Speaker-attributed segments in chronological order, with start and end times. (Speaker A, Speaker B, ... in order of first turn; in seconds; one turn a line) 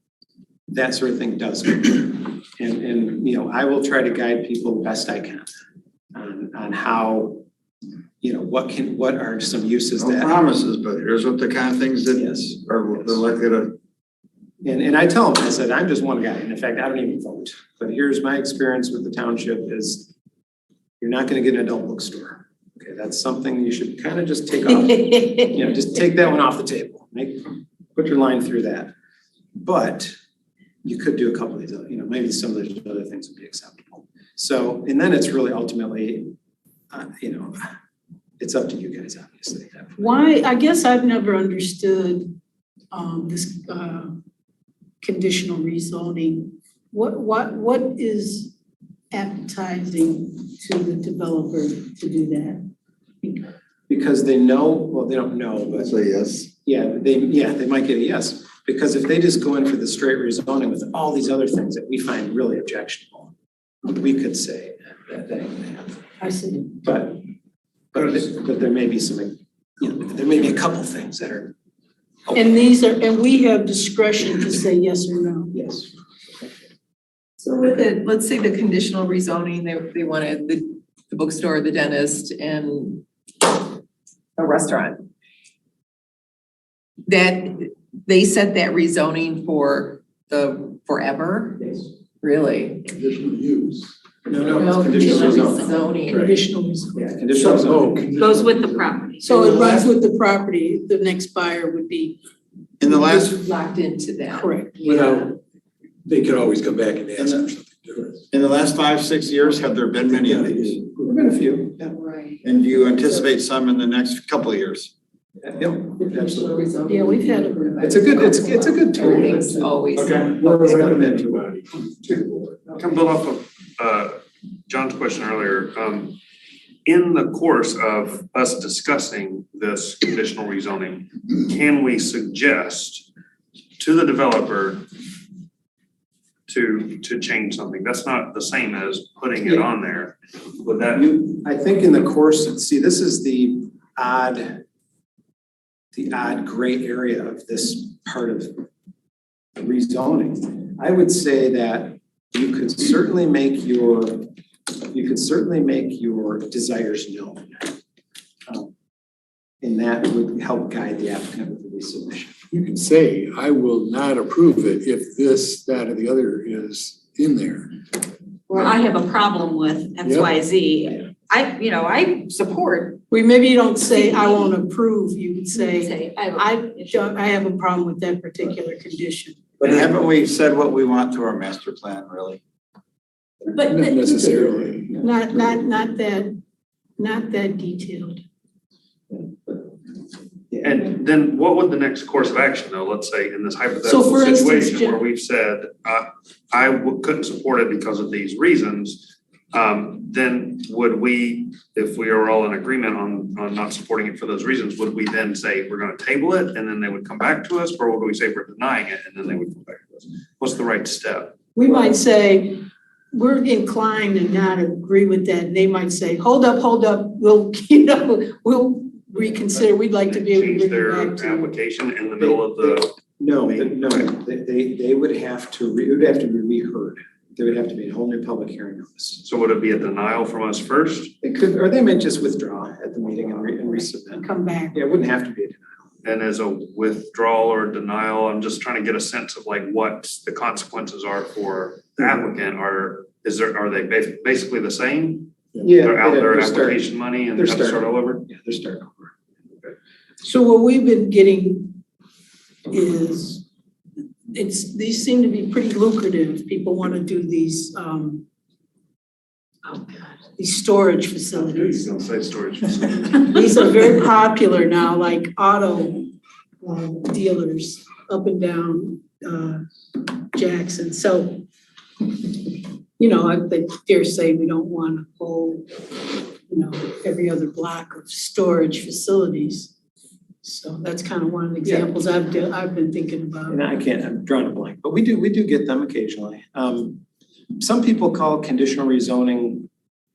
Speaker A: 0.7-5.5
Speaker A: 6.1-7.4
Speaker A: 8.2-10.4
Speaker B: 10.0-13.7
Speaker A: 12.2-13.2
Speaker A: 14.6-20.1
Speaker A: 21.0-27.4
Speaker A: 27.9-28.9
Speaker A: 29.6-30.1
Speaker A: 30.8-36.3
Speaker A: 36.9-37.7
Speaker A: 38.4-40.1
Speaker C: 40.0-42.3
Speaker C: 42.9-44.1
Speaker C: 45.0-48.5
Speaker C: 49.1-52.6
Speaker A: 53.9-55.9
Speaker B: 55.7-56.5
Speaker A: 56.6-63.3
Speaker A: 63.8-66.0
Speaker C: 66.2-66.7
Speaker A: 66.8-67.2
Speaker A: 67.9-71.5
Speaker C: 72.3-75.5
Speaker A: 75.5-75.9
Speaker D: 77.4-83.6
Speaker D: 84.4-85.0
Speaker D: 87.1-92.8
Speaker E: 92.9-93.9
Speaker A: 94.3-95.7
Speaker E: 94.4-95.0
Speaker D: 94.5-96.2
Speaker C: 96.0-97.2
Speaker A: 96.9-98.6
Speaker E: 97.3-98.7
Speaker F: 98.2-99.8
Speaker C: 99.2-102.2
Speaker B: 102.8-103.4
Speaker D: 102.9-105.2
Speaker C: 104.3-104.9
Speaker E: 104.8-105.3
Speaker E: 106.0-108.2
Speaker B: 107.2-107.4
Speaker B: 108.3-110.8
Speaker A: 110.3-111.9
Speaker B: 112.4-114.9
Speaker A: 115.5-116.5
Speaker D: 115.9-120.3
Speaker C: 116.8-118.8
Speaker A: 117.8-121.5
Speaker E: 120.0-122.6
Speaker G: 122.7-124.2
Speaker G: 124.7-126.2
Speaker G: 126.8-133.1
Speaker G: 133.8-134.8
Speaker G: 136.5-141.1
Speaker A: 140.9-144.6
Speaker A: 145.9-148.6
Speaker A: 149.6-154.3
Speaker A: 154.9-157.7
Speaker A: 159.6-162.3
Speaker E: 162.5-167.7
Speaker F: 168.5-172.5
Speaker E: 170.0-170.3
Speaker D: 172.3-173.0
Speaker C: 173.1-179.4
Speaker F: 173.9-174.3
Speaker F: 175.5-177.2
Speaker B: 179.6-182.4
Speaker F: 183.5-184.0
Speaker E: 183.7-185.0
Speaker C: 185.0-186.3
Speaker C: 187.0-188.2
Speaker G: 190.6-211.3
Speaker C: 193.8-195.0
Speaker C: 211.5-212.6
Speaker C: 213.1-221.5
Speaker G: 220.0-222.9
Speaker A: 222.2-229.2
Speaker G: 223.4-224.1
Speaker G: 229.2-231.1
Speaker A: 231.2-235.7
Speaker C: 233.6-234.8
Speaker G: 236.0-248.2
Speaker A: 245.6-249.1
Speaker C: 250.2-251.8
Speaker C: 252.7-253.4
Speaker C: 254.3-258.2
Speaker C: 259.6-261.9
Speaker G: 261.3-263.5
Speaker C: 263.1-266.1
Speaker C: 266.6-271.4
Speaker C: 272.1-279.7
Speaker C: 280.4-283.6
Speaker A: 281.6-281.9
Speaker A: 283.5-287.0
Speaker A: 287.5-289.7